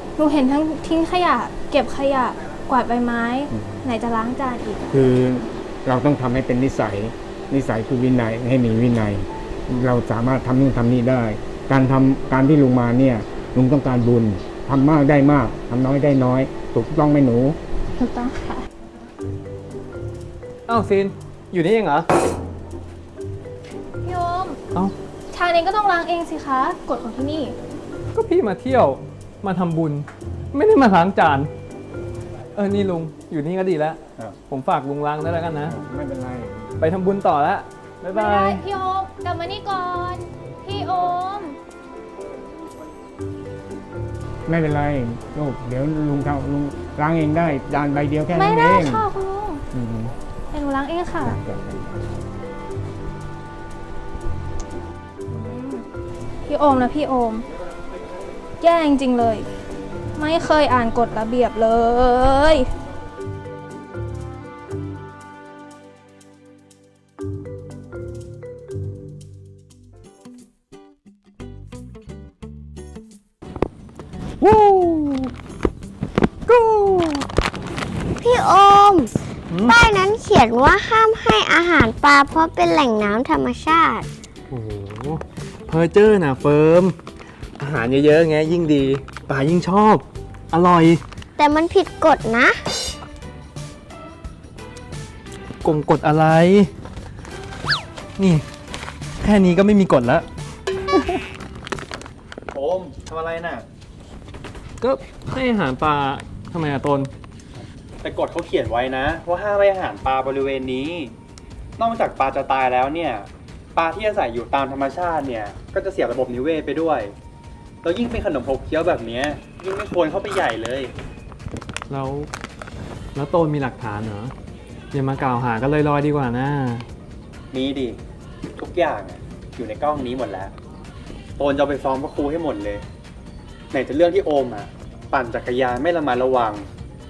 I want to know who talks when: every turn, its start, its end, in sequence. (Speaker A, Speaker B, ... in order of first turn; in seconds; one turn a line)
Speaker A: 0.2-4.9
Speaker B: 3.5-3.8
Speaker B: 4.9-17.6
Speaker A: 17.9-18.6
Speaker C: 20.7-22.1
Speaker A: 24.0-24.6
Speaker A: 25.3-27.5
Speaker C: 28.1-31.5
Speaker C: 32.5-35.7
Speaker B: 35.6-36.8
Speaker C: 36.8-38.6
Speaker A: 38.1-41.6
Speaker B: 44.5-49.0
Speaker A: 48.3-49.6
Speaker B: 49.7-50.1
Speaker A: 50.5-51.4
Speaker B: 51.2-52.1
Speaker A: 55.3-55.8
Speaker A: 56.5-57.5
Speaker A: 58.6-59.5
Speaker A: 60.1-62.7
Speaker C: 74.4-75.3
Speaker C: 76.5-77.2
Speaker D: 78.2-79.1
Speaker C: 79.5-79.8
Speaker D: 79.6-84.1
Speaker C: 84.5-87.0
Speaker C: 87.6-91.0
Speaker D: 91.4-92.6
Speaker C: 95.6-96.7
Speaker C: 98.2-98.4
Speaker C: 99.2-100.3
Speaker C: 100.9-101.2
Speaker E: 102.5-103.6
Speaker C: 104.8-107.1
Speaker E: 108.0-111.1
Speaker E: 111.8-117.1
Speaker E: 117.8-120.9
Speaker C: 121.9-122.3
Speaker C: 123.1-124.3
Speaker C: 124.9-126.8
Speaker E: 127.5-128.0
Speaker E: 128.6-130.5
Speaker E: 131.4-132.8
Speaker E: 133.7-136.7